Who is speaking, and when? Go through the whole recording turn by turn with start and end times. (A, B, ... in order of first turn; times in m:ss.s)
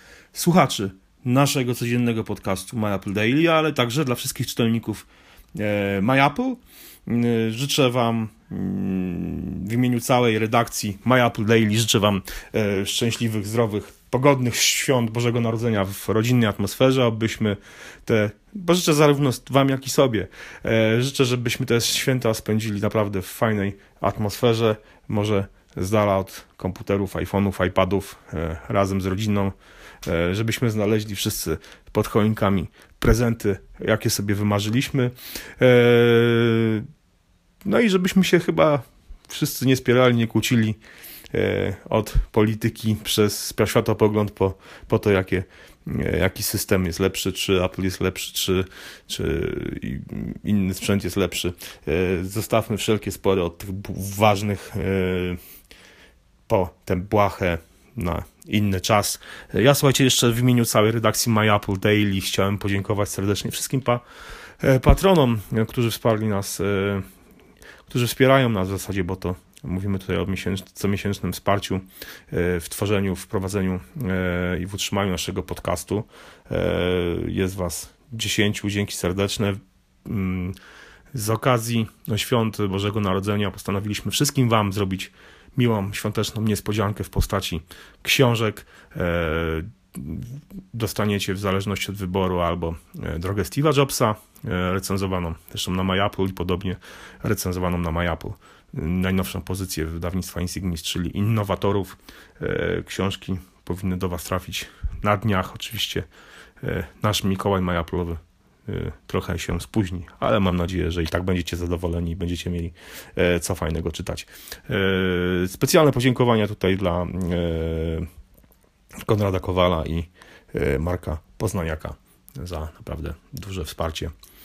0:00.3-0:36.9 A
0:37.6-0:40.8 A
0:41.3-0:55.4 A
0:56.5-1:04.0 A
1:04.6-1:07.0 A
1:07.9-1:20.6 A
1:21.1-1:46.1 A
1:46.6-1:58.1 A
1:59.0-2:04.1 A